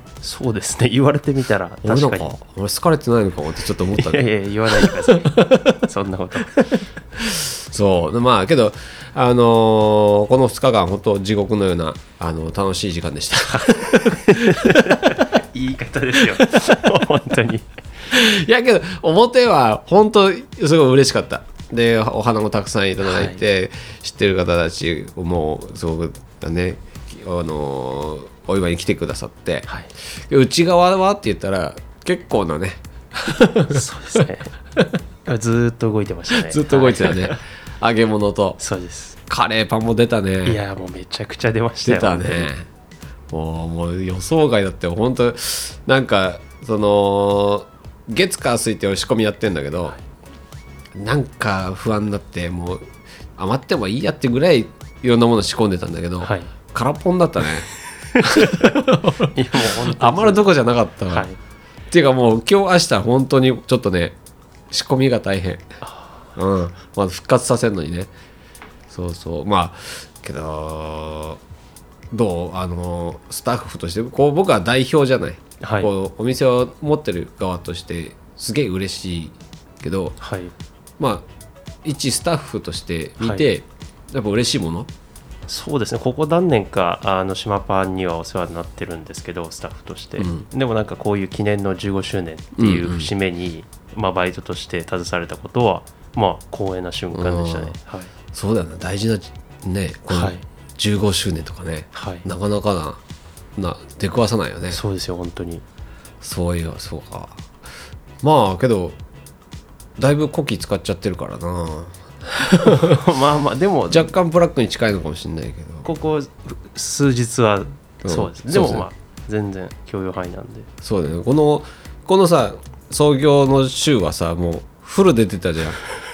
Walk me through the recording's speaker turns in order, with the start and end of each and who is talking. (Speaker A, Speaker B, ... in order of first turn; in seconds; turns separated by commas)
Speaker A: 0.2-2.3, Speaker B: 1.8-5.8, Speaker A: 3.9-6.5, Speaker B: 6.5-15.3, Speaker A: 13.5-17.7, Speaker B: 16.3-16.8, Speaker B: 18.1-29.7, Speaker A: 23.0-23.4, Speaker B: 30.3-34.2, Speaker A: 33.7-34.5, Speaker A: 35.2-37.4, Speaker B: 36.3-38.6, Speaker A: 38.6-39.1, Speaker B: 39.3-40.6, Speaker A: 40.4-42.5, Speaker B: 41.8-42.7, Speaker B: 43.3-50.0, Speaker B: 51.0-52.8, Speaker B: 53.4-61.3, Speaker A: 56.2-56.5, Speaker A: 58.3-60.5, Speaker A: 61.1-61.4, Speaker B: 61.9-64.2, Speaker B: 64.7-65.7, Speaker A: 65.8-66.1, Speaker B: 66.3-68.1, Speaker B: 68.9-71.4, Speaker B: 72.1-80.2, Speaker A: 75.6-75.9, Speaker A: 80.2-80.5, Speaker B: 81.0-81.2, Speaker B: 81.8-84.9, Speaker A: 85.5-98.1, Speaker B: 90.2-90.5, Speaker B: 92.5-93.1, Speaker B: 97.1-97.7, Speaker B: 98.3-103.0, Speaker A: 100.1-100.4, Speaker A: 101.9-102.2, Speaker B: 103.6-104.8, Speaker A: 104.7-105.6, Speaker B: 106.2-107.4, Speaker B: 108.2-109.0, Speaker B: 110.0-113.0, Speaker A: 112.6-114.1, Speaker B: 113.9-115.9, Speaker A: 115.8-120.7, Speaker B: 118.0-118.9, Speaker B: 120.8-125.8